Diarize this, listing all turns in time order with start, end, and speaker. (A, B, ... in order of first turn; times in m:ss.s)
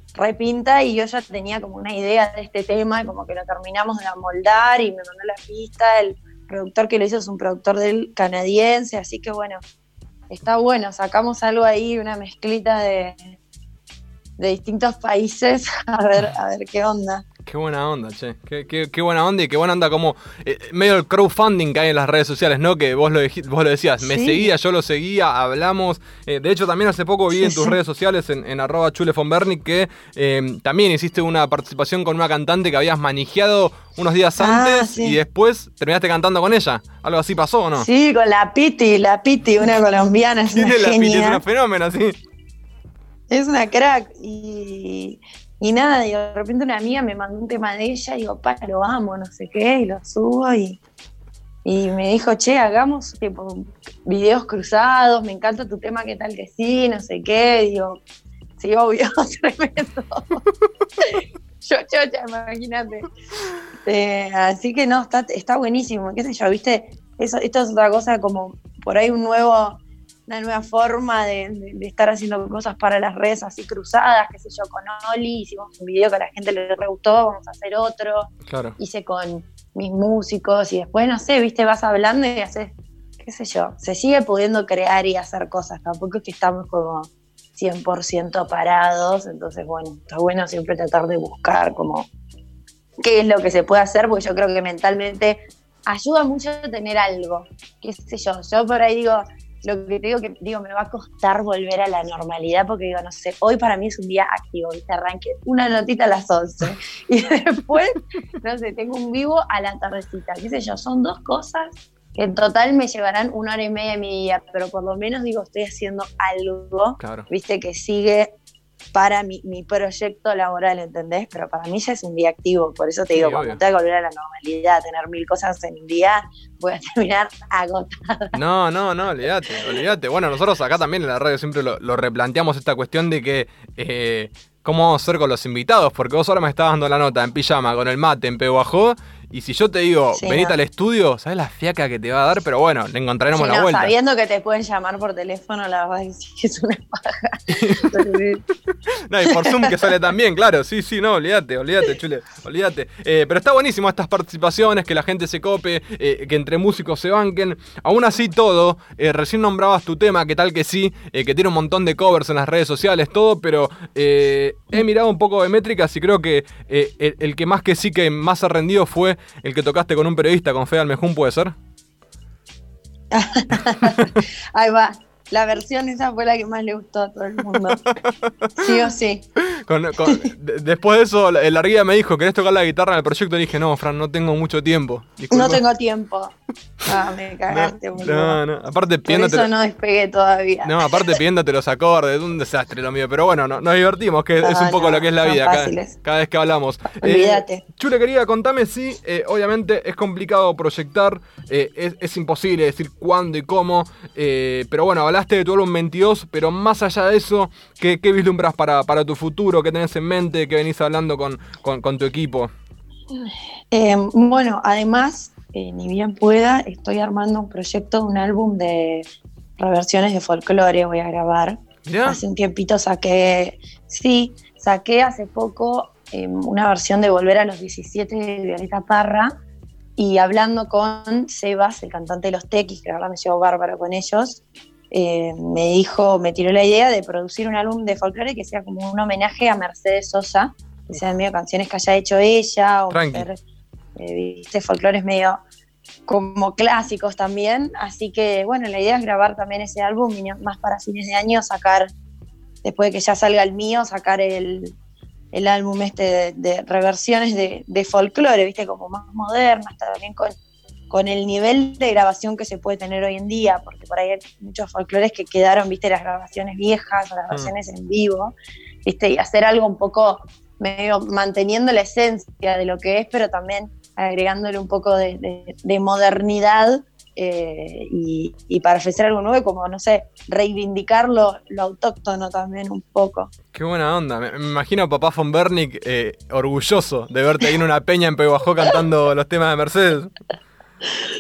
0:00.2-0:09.6 A
0:10.3-0:13.4 A
0:14.4-0:17.2 A
0:17.5-0:37.9 B
0:24.0-0:24.5 A
0:27.4-0:27.8 A
0:34.4-0:35.2 A
0:37.8-0:41.4 A
0:40.5-0:42.2 B
0:43.3-0:50.8 A
0:51.6-0:58.0 A
0:58.6-1:00.4 A
1:01.0-1:03.1 A
1:03.8-1:32.1 A
1:18.5-1:18.8 B
1:33.0-1:58.4 A
1:57.0-1:57.3 B
1:58.9-2:08.4 A
2:03.2-2:03.6 B
2:08.3-2:23.9 B
2:20.2-2:20.6 A
2:23.3-2:28.5 A
2:27.6-2:27.9 B
2:29.1-2:51.5 B
2:29.2-2:29.9 A
2:53.1-2:57.8 A
2:58.0-2:58.9 B
2:58.6-2:59.2 A
2:59.5-3:05.6 B
3:05.3-3:06.3 A
3:06.8-3:08.4 A
3:07.5-3:09.5 B
3:09.1-3:11.2 A
3:10.6-3:32.5 B
3:14.4-3:16.0 A
3:17.0-3:17.6 A
3:33.7-3:39.0 A
3:39.6-3:49.3 A
3:41.9-3:42.2 B
3:50.0-4:03.4 A
4:02.9-4:03.3 B
4:04.0-4:05.4 A
4:06.1-4:11.9 A
4:12.6-4:14.8 A
4:15.3-4:20.3 A
4:20.9-4:43.3 A
4:43.5-4:50.1 B